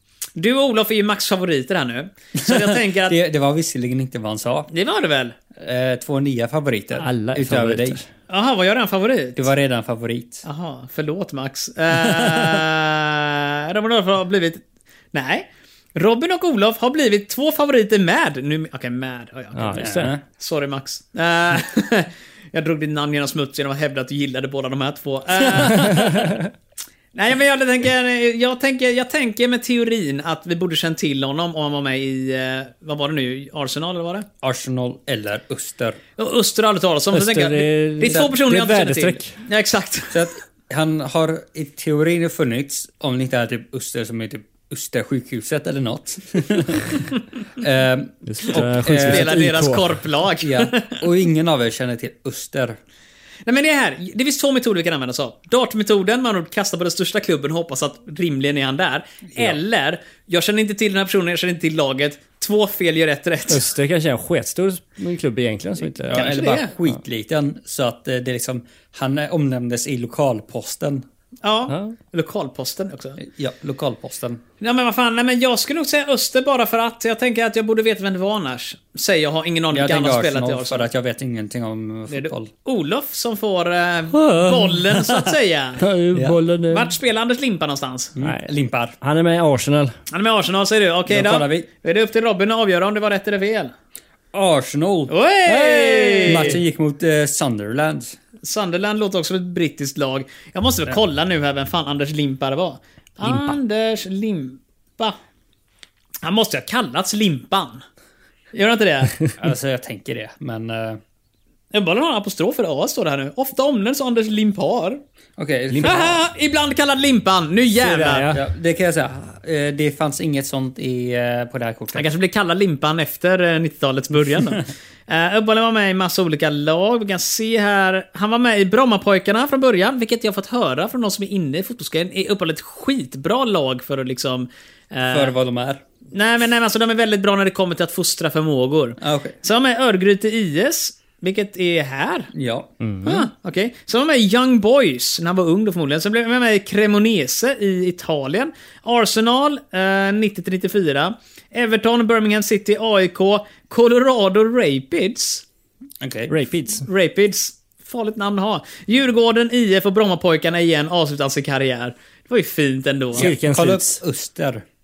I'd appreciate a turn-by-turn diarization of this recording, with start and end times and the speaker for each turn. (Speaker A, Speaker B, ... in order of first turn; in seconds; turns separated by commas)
Speaker A: 0.3-3.1, Speaker B: 2.4-4.7, Speaker A: 4.7-5.3, Speaker B: 5.5-8.0, Speaker C: 7.0-8.0, Speaker A: 8.3-9.5, Speaker B: 9.3-10.4, Speaker A: 10.4-14.6, Speaker A: 15.1-26.3, Speaker C: 19.6-20.1, Speaker B: 19.8-20.2, Speaker C: 25.9-26.4, Speaker A: 27.1-34.2, Speaker B: 34.4-36.0, Speaker A: 36.2-40.3, Speaker C: 37.1-39.4, Speaker B: 40.1-49.4, Speaker C: 48.2-49.9, Speaker A: 49.0-51.0, Speaker B: 50.4-52.8, Speaker A: 53.5-63.6, Speaker C: 63.5-66.3, Speaker B: 66.1-71.0, Speaker A: 66.1-66.7, Speaker A: 71.4-73.2, Speaker C: 71.7-72.0, Speaker B: 73.2-74.4, Speaker A: 74.6-80.9, Speaker B: 79.7-82.5, Speaker A: 82.1-85.8, Speaker C: 84.1-84.8, Speaker C: 85.8-86.9, Speaker B: 86.1-86.4, Speaker A: 86.7-88.1, Speaker B: 88.2-88.9, Speaker C: 88.2-88.5, Speaker C: 89.0-89.9, Speaker A: 90.1-93.7, Speaker B: 91.1-91.7, Speaker B: 94.3-95.7, Speaker A: 95.1-96.6, Speaker C: 95.7-96.6, Speaker B: 96.2-98.2, Speaker A: 98.4-105.2, Speaker C: 103.2-103.5, Speaker A: 106.2-107.8, Speaker A: 108.5-109.2, Speaker B: 109.4-111.0, Speaker A: 111.7-115.0, Speaker B: 115.4-116.2, Speaker C: 115.7-116.0, Speaker A: 115.8-118.3, Speaker C: 117.8-118.4, Speaker B: 118.3-122.1, Speaker A: 121.9-135.3, Speaker B: 135.1-135.8, Speaker A: 136.1-142.3, Speaker B: 139.0-139.3, Speaker B: 142.3-142.7, Speaker C: 142.8-143.3, Speaker A: 143.0-155.4, Speaker B: 156.0-156.3, Speaker C: 156.3-156.9, Speaker A: 156.8-163.3, Speaker C: 163.1-163.9, Speaker B: 163.2-164.6